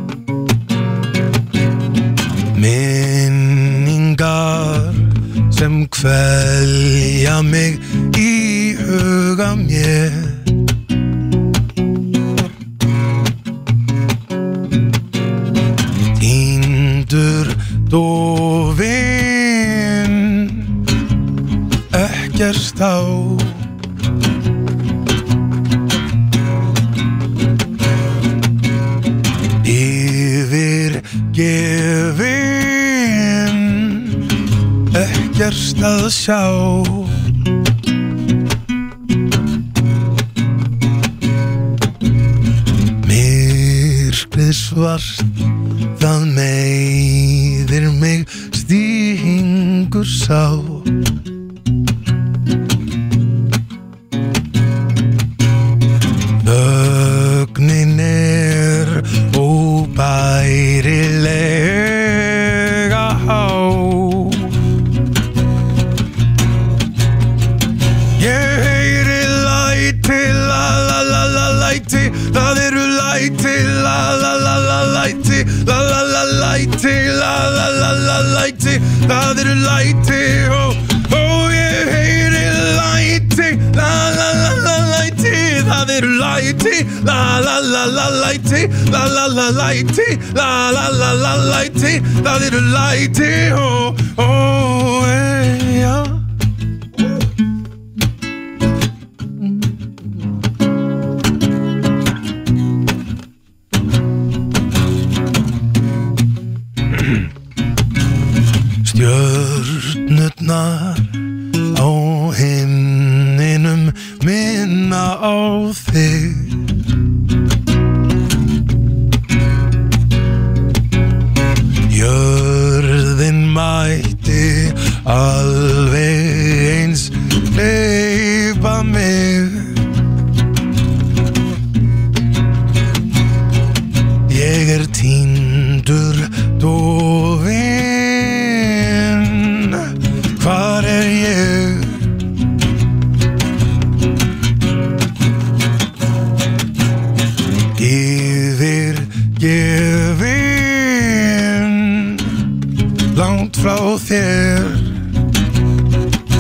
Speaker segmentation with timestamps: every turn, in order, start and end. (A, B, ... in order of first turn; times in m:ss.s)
0:02.6-0:10.4 A
0:16.2-0:20.7 A
0:21.9-0:23.5 A
0:29.6-0:34.1 A
0:34.9-0:37.1 A
0:43.0-0:45.2 A
0:46.0-0:50.8 A
0:56.4-1:04.4 A
1:08.2-1:36.2 A
1:48.8-1:51.0 A
1:51.7-1:56.4 A
2:01.9-2:09.5 A
2:14.3-2:18.5 A
2:20.4-2:21.8 A
2:27.8-2:32.2 A
2:33.2-2:34.8 A